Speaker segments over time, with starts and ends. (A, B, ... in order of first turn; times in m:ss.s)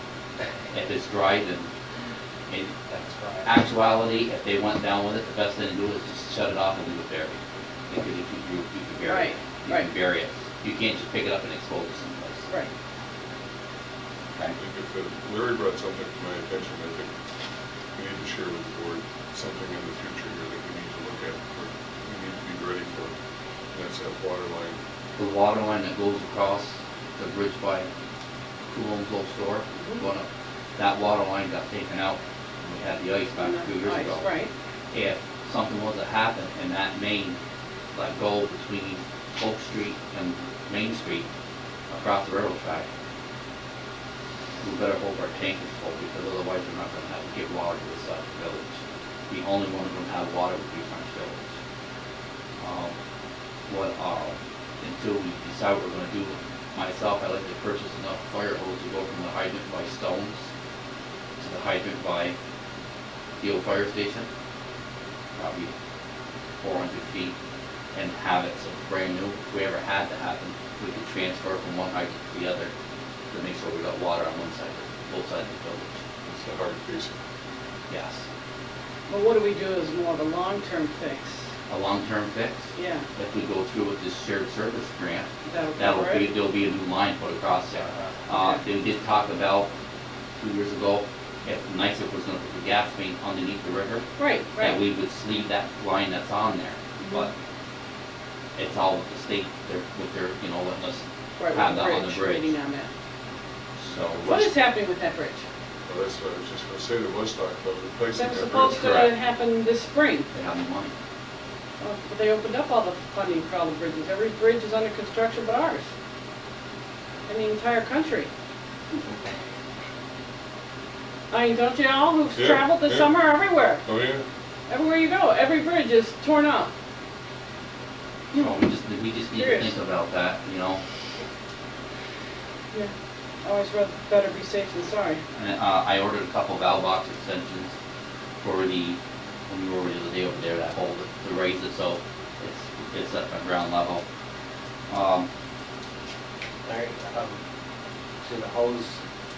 0:00.7-0:01.7 A
0:02.5-0:02.7 A
0:02.9-0:03.5 B
0:03.4-0:12.5 A
0:09.0-0:09.9 C
0:14.6-0:17.1 D
0:18.0-0:23.1 D
0:23.7-0:24.8 D
0:25.2-0:27.9 A
0:28.7-0:34.3 A
0:33.4-0:34.5 C
0:34.9-0:37.4 A
0:37.9-0:41.3 A
0:41.9-0:42.9 A
0:44.6-0:48.8 A
0:49.3-0:51.5 A
0:52.6-0:52.9 A
0:53.7-1:00.5 A
1:01.4-1:02.4 A
1:03.4-1:04.3 A
1:05.4-1:05.7 A
1:06.6-1:07.4 A
1:07.9-1:12.7 A
1:13.3-1:16.0 A
1:16.3-1:17.2 D
1:17.9-1:18.3 A
1:19.1-1:21.4 C
1:21.7-1:29.7 A
1:22.8-1:23.1 C
1:25.4-1:26.3 C
1:28.3-1:28.6 C
1:30.4-1:34.1 A
1:34.2-1:34.8 C
1:34.6-1:37.3 A
1:38.6-1:42.5 A
1:41.4-1:42.9 C
1:43.8-1:44.6 A
1:44.2-1:45.4 C
1:45.9-1:48.8 D
1:48.1-1:50.3 C
1:48.7-1:49.2 A
1:50.3-1:50.9 A
1:51.8-1:55.9 C
1:57.3-1:58.3 C
2:01.3-2:03.8 C
2:02.4-2:03.2 D
2:03.8-2:04.2 D
2:04.7-2:06.7 C
2:08.3-2:08.7 C
2:08.3-2:10.8 A
2:09.4-2:09.8 C
2:13.4-2:15.2 C
2:15.3-2:17.8 A
2:18.4-2:24.0 A
2:24.9-2:25.3 A
2:26.6-2:27.4 B
2:28.2-2:29.0 B